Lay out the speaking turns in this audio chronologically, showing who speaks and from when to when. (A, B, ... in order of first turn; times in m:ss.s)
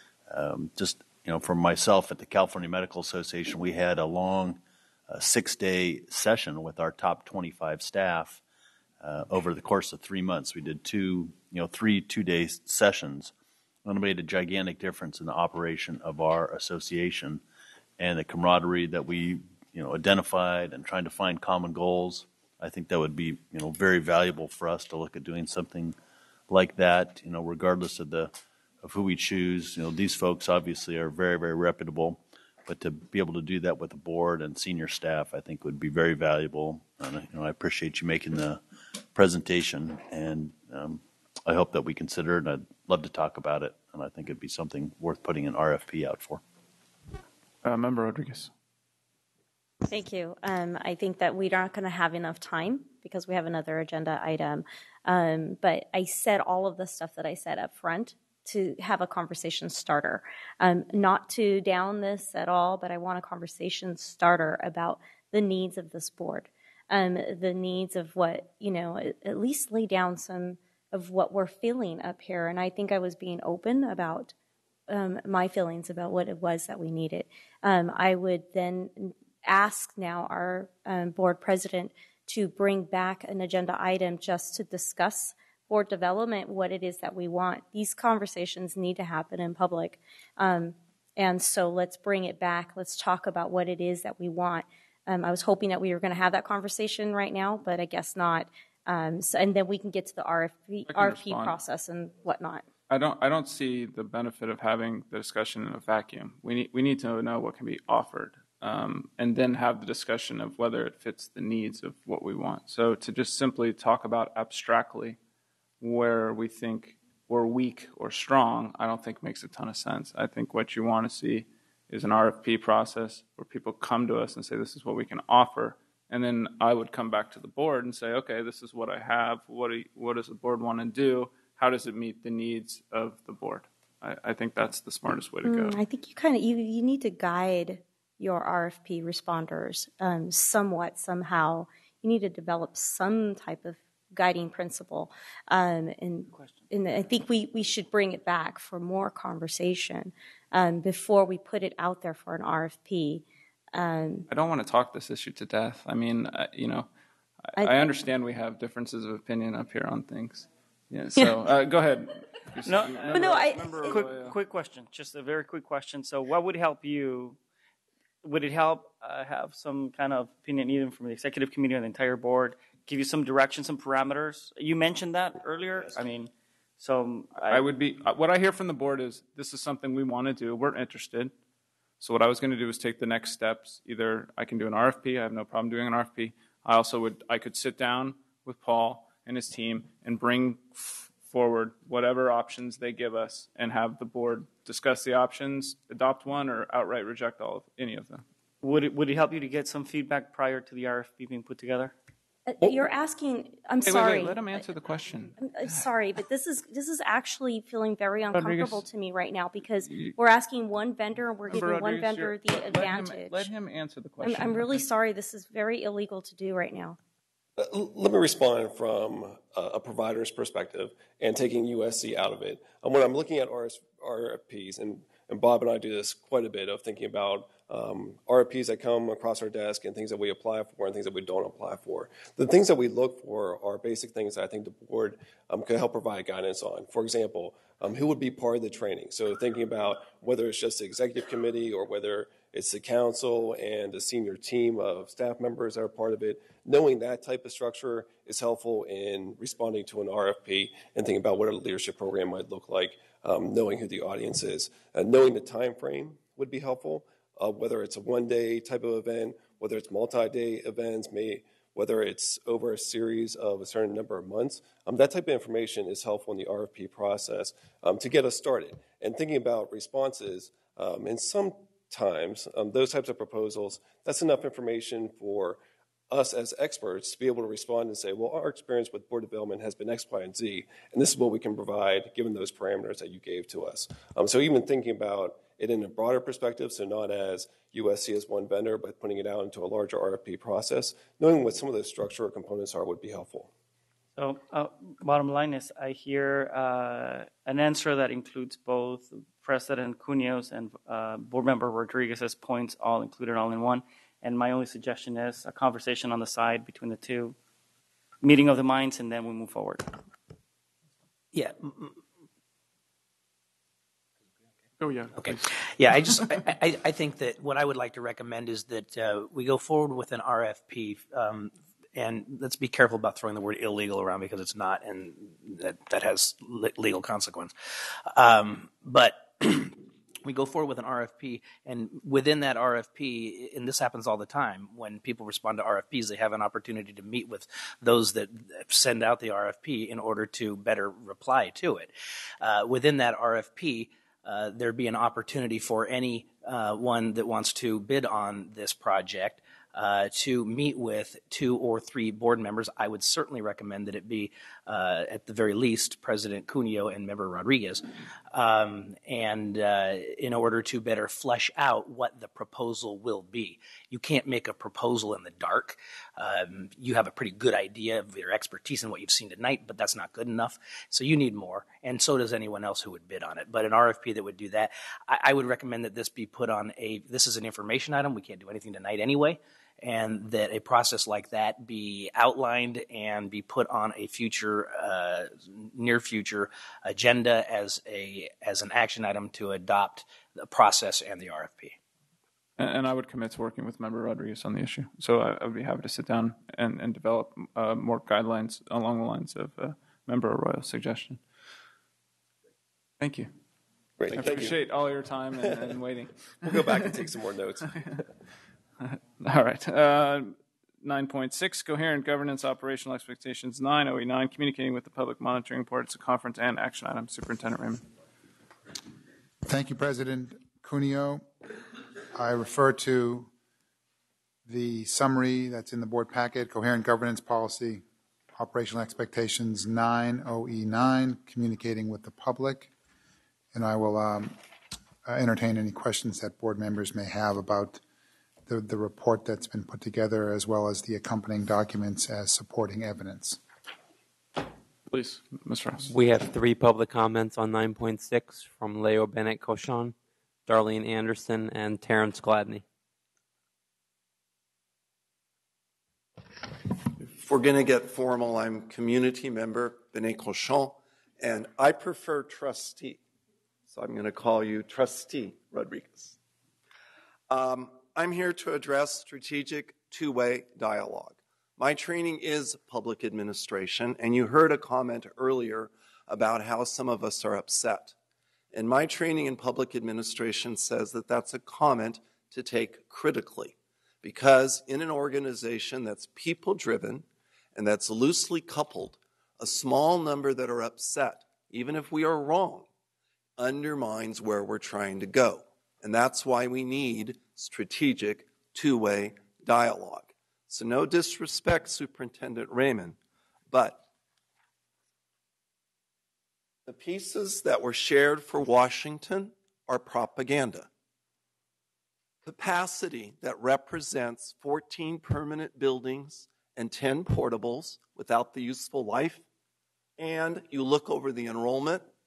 0:00.3-0:08.4 A
0:09.0-0:13.3 A
0:13.8-0:17.4 A
0:18.0-0:26.0 A
0:26.5-0:38.6 A
0:39.1-0:46.4 A
0:47.6-0:48.5 B
0:49.9-1:14.3 C
1:14.9-1:42.7 C
1:40.8-1:41.6 B
1:42.9-1:55.2 B
1:55.8-2:15.8 B
2:15.4-2:34.3 C
2:34.3-2:36.9 B
2:37.4-2:44.4 B
2:37.6-2:38.0 C
2:41.2-2:41.4 C
2:42.6-2:47.4 D
2:43.1-2:44.0 C
2:48.2-2:57.6 D
2:57.4-3:01.3 B
3:02.0-3:18.2 B
3:18.6-3:21.9 D
3:22.4-3:24.8 C
3:23.8-3:25.8 B
3:25.4-3:33.5 C
3:28.3-3:28.8 B
3:29.8-3:30.2 B
3:31.5-3:34.8 B
3:34.2-3:37.0 C
3:37.6-4:53.5 E
4:54.2-5:07.4 D
5:08.2-5:09.9 D
5:11.3-5:12.0 F
5:14.8-5:16.4 B
5:15.1-5:27.5 F
5:28.1-6:31.8 F
6:32.6-6:41.2 B
6:43.0-6:43.3 B
6:44.0-6:44.6 E
6:44.1-6:47.1 B
6:45.4-6:45.8 E
6:46.4-6:48.0 E
6:47.7-6:48.0 B
6:48.8-6:57.8 B
6:59.4-7:01.3 G
7:02.1-7:03.3 G
7:04.5-7:07.8 G
7:08.3-7:12.7 G
7:13.5-7:14.4 G
7:15.0-7:17.8 G
7:18.5-7:23.4 G
7:24.9-7:25.9 B
7:25.8-7:29.9 H
7:30.4-7:32.6 H
7:37.2-7:43.0 I
7:43.7-7:46.2 I
7:47.3-7:57.9 I
7:58.5-8:12.7 I
8:13.4-8:23.0 I
8:23.5-8:23.8 I
8:26.6-8:30.7 I
8:32.2-8:39.2 I
8:40.0-8:41.9 I